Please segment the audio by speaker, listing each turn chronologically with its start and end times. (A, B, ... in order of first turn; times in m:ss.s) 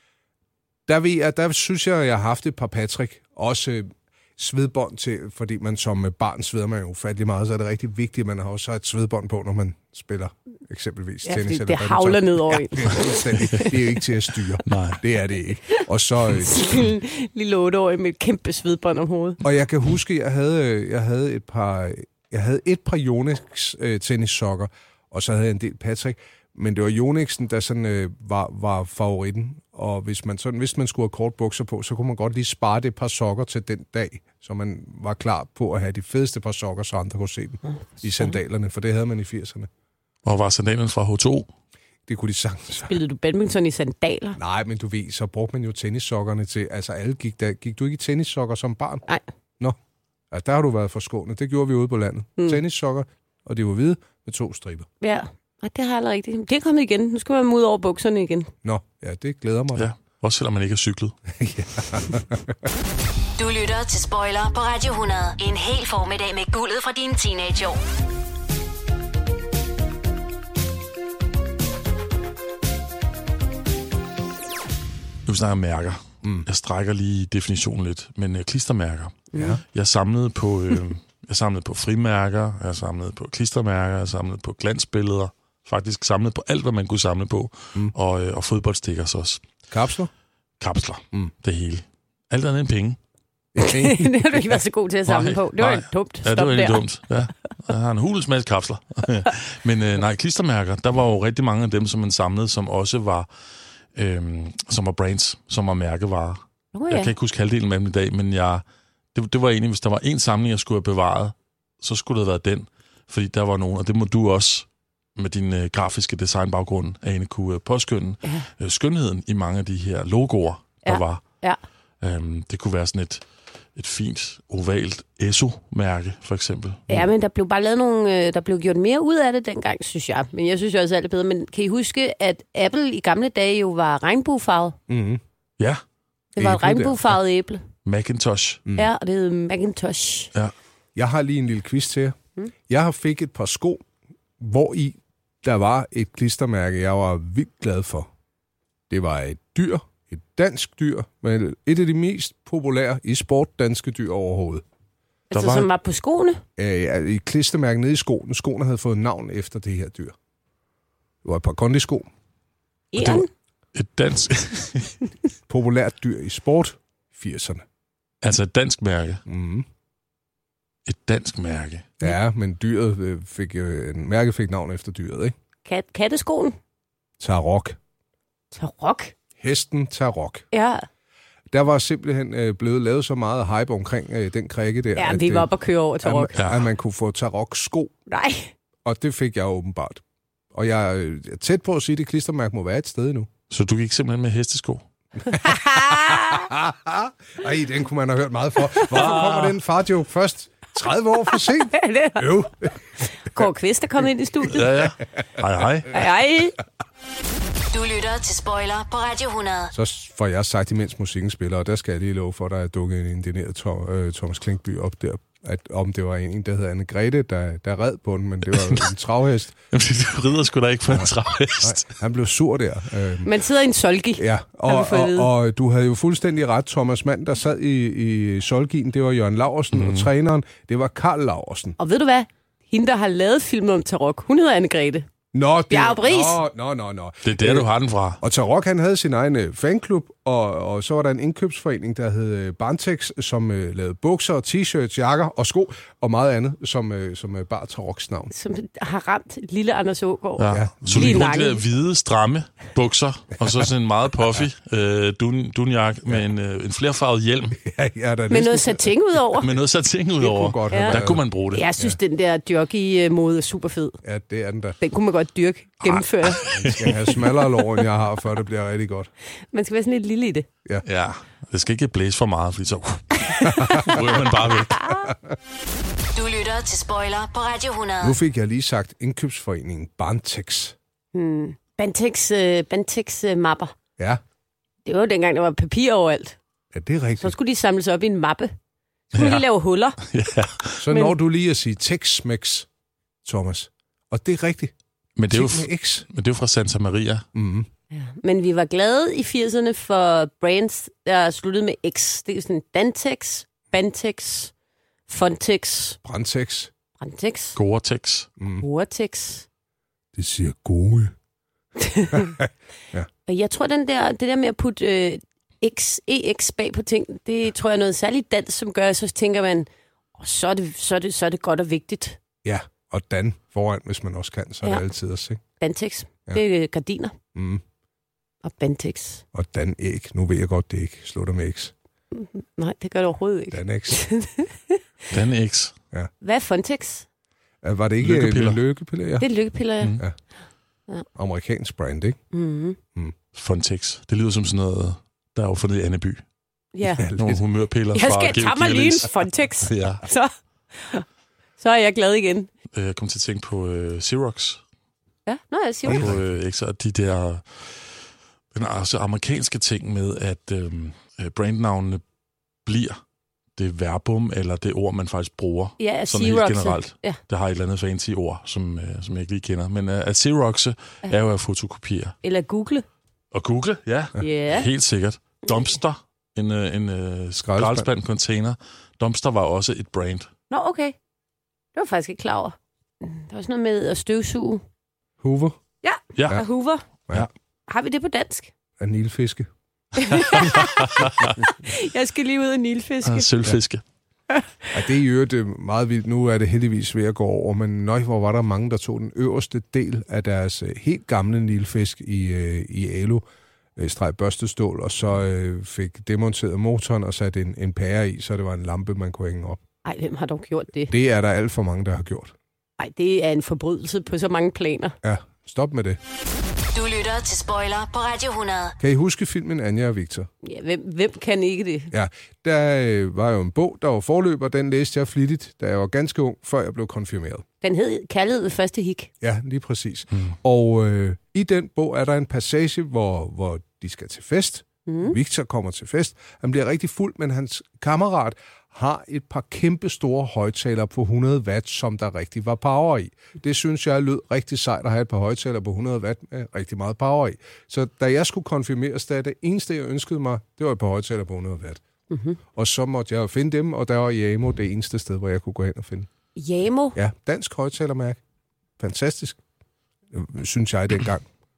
0:00.9-0:16.8 A
0:11.2-0:13.8 B
0:14.7-0:15.0 C
0:16.3-0:19.4 B
0:19.4-0:39.7 A
0:37.7-0:38.4 B
0:40.2-0:41.5 C
0:42.1-0:43.0 A
0:42.8-0:44.4 B
0:44.4-0:49.0 A
0:50.3-0:54.9 A
0:55.0-0:58.5 B
0:58.6-0:59.9 A
0:59.8-1:01.2 C
1:01.4-1:02.5 A
1:03.4-1:07.8 D
1:15.3-1:29.4 C
1:19.4-1:19.6 A
1:29.7-1:30.1 A
1:30.6-1:33.0 C
1:33.5-1:34.4 A
1:33.6-1:36.8 B
1:35.1-1:43.3 C
1:44.0-2:01.2 C
1:46.7-1:47.1 B
2:00.8-2:01.6 B
2:02.0-2:03.2 C
2:03.8-2:07.0 C
2:06.9-2:14.8 B
2:14.9-2:15.2 A
2:16.4-2:17.6 B
2:16.4-2:17.1 A
2:17.8-2:18.6 C
2:18.8-2:20.3 B
2:21.0-2:22.2 A
2:22.7-2:23.8 A
2:24.4-2:28.1 A
2:28.9-2:34.6 A
2:35.3-2:36.4 B
2:35.3-2:35.7 C
2:36.6-2:40.2 A
2:41.2-2:42.1 A
2:42.9-2:43.3 B
2:43.0-2:45.0 C
2:45.5-2:47.6 A
2:48.2-2:49.2 C
2:49.3-2:49.7 A
2:50.9-2:51.9 C
2:52.0-2:55.4 A
2:55.6-2:56.6 B
2:57.2-2:57.8 A
2:58.5-2:59.1 B
2:59.4-3:00.4 A
3:00.5-3:00.8 B
3:01.5-3:05.5 A
3:05.0-3:06.4 B
3:06.0-3:07.9 A
3:06.4-3:06.7 C
3:08.1-3:08.5 B
3:08.8-3:10.0 A
3:10.5-3:13.3 A
3:13.5-3:14.8 C
3:15.3-3:16.5 B
3:15.8-3:22.8 A
3:18.9-3:19.6 C
3:21.7-3:22.5 B
3:23.1-3:24.7 B
3:24.5-3:26.0 C
3:25.9-3:26.6 B
3:27.7-3:29.7 D
3:29.7-3:39.6 A
3:39.7-3:41.9 C
3:40.9-3:43.3 A
3:43.2-3:45.3 B
3:44.2-3:51.8 A
3:49.7-3:50.1 C
3:51.8-3:55.1 B
3:55.3-3:57.7 A
3:55.7-3:56.4 B
3:57.2-3:58.2 C
3:58.2-4:08.3 A
4:08.3-4:11.6 B
4:10.4-4:17.6 C
4:10.5-4:11.2 A
4:17.6-4:18.9 A
4:18.3-4:19.5 B
4:19.4-4:21.7 C
4:20.2-4:21.2 A
4:20.7-4:21.0 B
4:21.5-4:24.0 B
4:24.0-4:24.8 A
4:24.8-4:26.6 B
4:25.9-4:27.0 C
4:26.6-4:29.1 A
4:29.5-4:30.5 B
4:30.8-4:35.0 C
4:33.4-4:34.0 B
4:33.5-4:34.1 A
4:36.1-4:38.2 D
4:38.0-4:40.8 A
4:41.1-4:43.7 B
4:44.9-4:46.4 B
4:46.7-4:47.4 A
4:47.2-4:48.5 B
4:49.1-4:50.0 B
4:49.1-4:49.4 C
4:50.0-4:50.8 C
4:50.8-4:52.7 A
4:53.2-4:54.7 A
4:55.2-4:57.2 C
4:55.3-4:56.1 A
4:57.4-4:57.7 A
4:57.9-5:04.5 B
5:05.1-5:06.0 B
5:06.0-5:06.7 A
5:07.0-5:07.6 B
5:07.6-5:08.3 C
5:08.4-5:08.6 A
5:08.6-5:09.5 B
5:10.2-5:11.1 A
5:11.8-5:12.4 B
5:12.2-5:13.1 A
5:13.3-5:22.2 B
5:22.4-5:25.4 A
5:25.6-5:27.2 B
5:27.4-5:27.6 A
5:28.4-5:29.2 B
5:29.3-5:31.7 A
5:32.1-5:34.8 B
5:33.5-5:34.0 A
5:35.1-5:35.7 C
5:36.2-5:37.1 B
5:37.6-5:39.3 A
5:38.0-5:38.6 C
5:39.2-5:40.0 B
5:41.2-5:42.2 A
5:42.3-5:42.8 B
5:43.4-5:46.2 C
5:46.8-5:47.1 B
5:47.0-5:47.4 A
5:47.2-5:50.0 C
5:47.9-5:51.0 B
5:51.6-5:52.5 B
5:52.7-5:54.6 C
5:55.3-5:56.0 B
5:55.9-5:56.2 A
5:55.9-5:57.9 C
5:58.5-6:02.0 C
6:02.6-6:03.0 C
6:03.6-6:12.2 C
6:05.8-6:07.2 B
6:12.2-6:12.8 B
6:13.3-6:20.3 C
6:14.2-6:14.7 B
6:17.4-6:17.9 A
6:20.5-6:21.0 B
6:21.8-6:24.6 B
6:25.2-6:25.6 A
6:25.8-6:26.8 B
6:27.7-6:28.5 B
6:28.8-6:29.5 A
6:30.0-6:30.8 B
6:30.4-6:31.4 C
6:31.4-6:33.3 B
6:33.0-6:33.8 C
6:34.3-6:34.7 B
6:34.7-6:43.2 A
6:43.8-6:49.6 A
6:49.8-6:50.9 B
6:50.9-6:52.3 A
6:52.8-6:55.0 B
6:55.0-6:56.0 A
6:56.7-6:58.8 D
6:58.8-7:00.3 A
7:00.4-7:01.9 B
7:01.9-7:07.4 A
7:07.6-7:09.1 B
7:09.2-7:31.8 A
7:14.9-7:15.2 B
7:32.1-7:32.4 B
7:32.6-7:36.1 A
7:36.4-7:37.0 B
7:37.0-7:38.2 A
7:38.8-7:39.4 A
7:40.1-7:41.2 A